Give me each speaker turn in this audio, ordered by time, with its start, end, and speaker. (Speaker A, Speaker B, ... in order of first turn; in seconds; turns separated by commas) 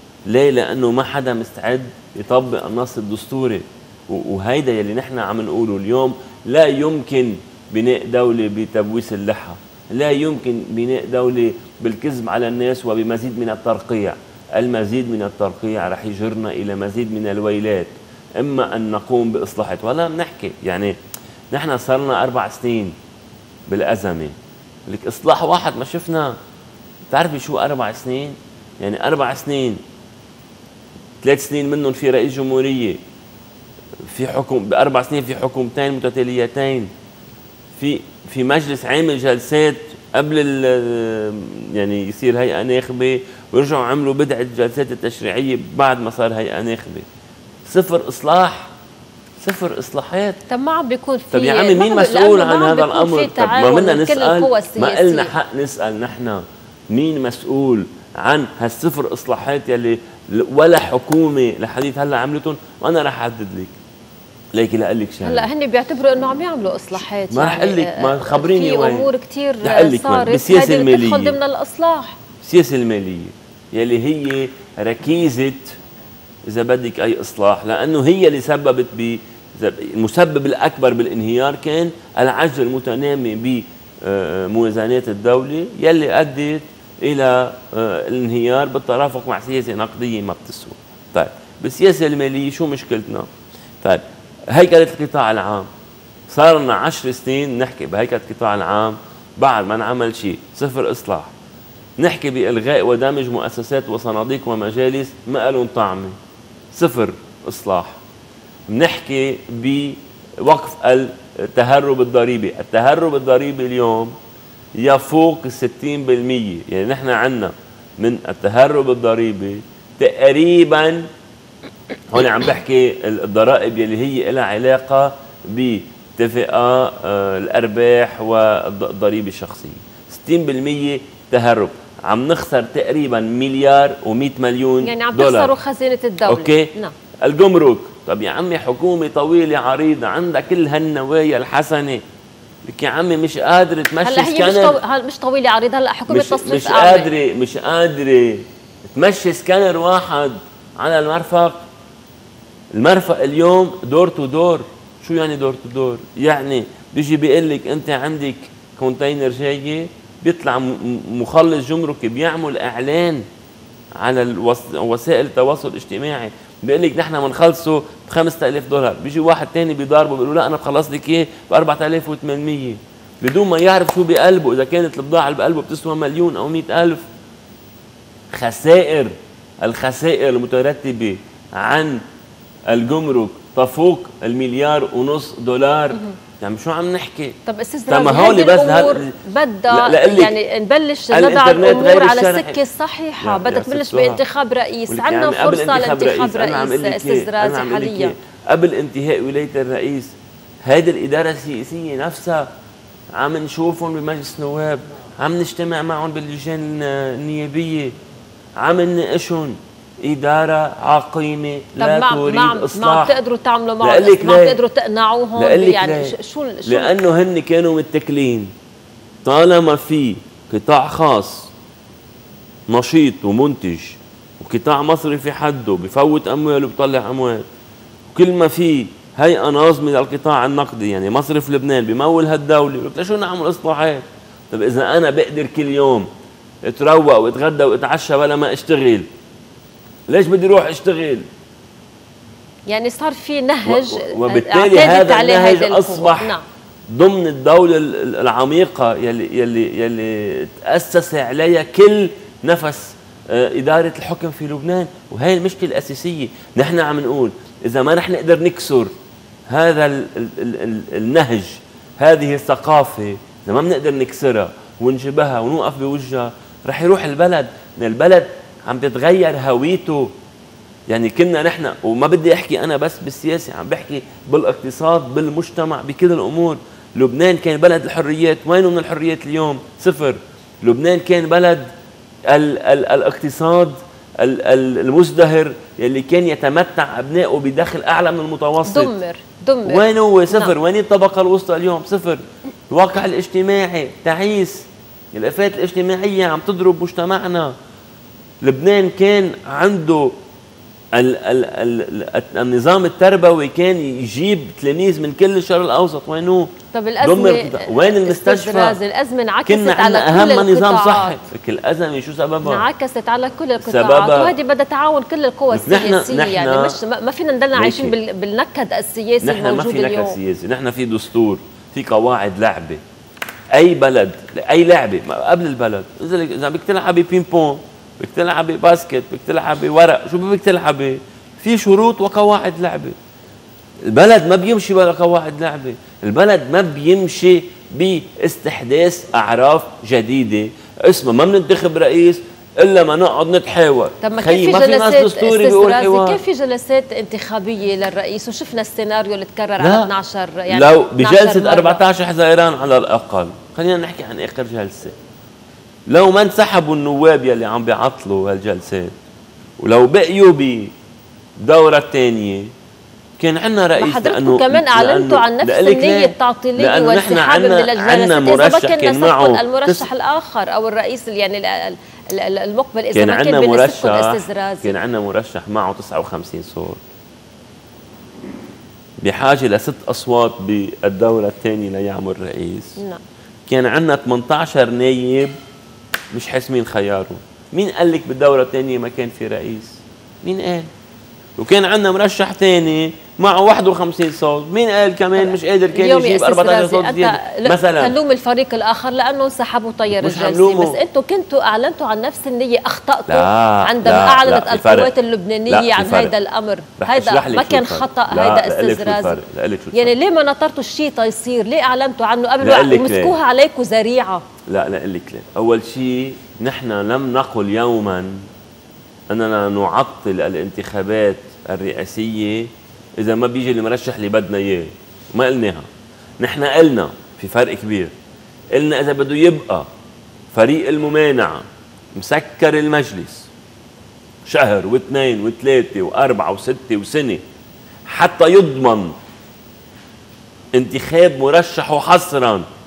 Speaker A: 0.3-20.9, Speaker A: 21.5-22.9, Speaker A: 23.7-26.4, Speaker A: 27.1-29.8, Speaker A: 31.2-33.0, Speaker A: 34.0-36.9, Speaker A: 37.8-47.1, Speaker A: 47.6-48.7, Speaker A: 49.4-50.4, Speaker B: 50.5-55.3, Speaker A: 51.3-63.7, Speaker A: 64.5-65.5, Speaker B: 65.2-72.2, Speaker A: 67.3-69.1, Speaker A: 69.6-71.4, Speaker A: 72.4-75.8, Speaker A: 76.5-93.3, Speaker A: 93.8-95.7, Speaker A: 96.3-101.3, Speaker A: 102.0-106.2, Speaker A: 106.7-108.0, Speaker A: 108.7-114.2, Speaker A: 114.8-121.1, Speaker A: 122.1-135.5, Speaker B: 134.8-136.9, Speaker A: 136.3-136.7, Speaker A: 137.2-142.0, Speaker A: 142.7-144.8, Speaker B: 144.0-147.1, Speaker A: 146.1-151.6, Speaker A: 152.7-163.2, Speaker A: 164.0-177.1, Speaker A: 178.3-182.0, Speaker A: 182.7-187.4, Speaker B: 187.4-198.1, Speaker A: 187.9-189.2, Speaker A: 189.7-190.4, Speaker A: 191.1-192.6, Speaker A: 193.2-194.2, Speaker A: 194.9-202.5, Speaker A: 203.1-207.9, Speaker A: 208.6-213.2, Speaker B: 211.8-216.9, Speaker A: 213.8-214.6, Speaker A: 215.3-216.1, Speaker A: 216.7-218.5, Speaker A: 219.2-221.5, Speaker A: 222.7-227.4, Speaker A: 228.1-236.1, Speaker A: 236.6-239.1, Speaker A: 240.1-241.3, Speaker B: 242.7-246.4, Speaker A: 243.6-246.3, Speaker A: 246.9-258.9, Speaker A: 259.5-270.1, Speaker A: 270.9-281.7, Speaker A: 282.3-288.9, Speaker B: 288.6-290.5, Speaker A: 289.6-297.5, Speaker A: 298.4-300.2, Speaker A: 300.9-308.8, Speaker B: 306.7-311.2, Speaker A: 309.5-312.6, Speaker B: 312.4-320.2, Speaker A: 313.6-314.3, Speaker A: 315.5-316.8, Speaker A: 317.5-317.9, Speaker A: 319.2-322.8, Speaker A: 323.5-333.0, Speaker A: 333.9-346.2, Speaker B: 344.0-351.8, Speaker A: 349.6-349.9, Speaker A: 350.5-354.9, Speaker A: 355.9-358.9, Speaker A: 359.6-360.7, Speaker A: 361.4-362.5, Speaker A: 363.2-369.9, Speaker B: 363.8-374.8, Speaker A: 372.9-376.8, Speaker A: 379.0-382.8, Speaker A: 383.5-385.4, Speaker A: 386.1-390.7, Speaker A: 391.4-397.9, Speaker B: 395.2-409.2, Speaker A: 399.9-400.8, Speaker A: 403.1-404.9, Speaker A: 405.5-406.1, Speaker A: 406.8-409.9, Speaker B: 409.7-414.2, Speaker A: 412.4-413.2, Speaker A: 414.5-418.2, Speaker A: 419.1-425.7, Speaker A: 426.2-427.9, Speaker A: 428.5-429.7, Speaker A: 430.3-433.3, Speaker A: 434.2-437.2, Speaker A: 437.8-438.9, Speaker A: 440.5-442.4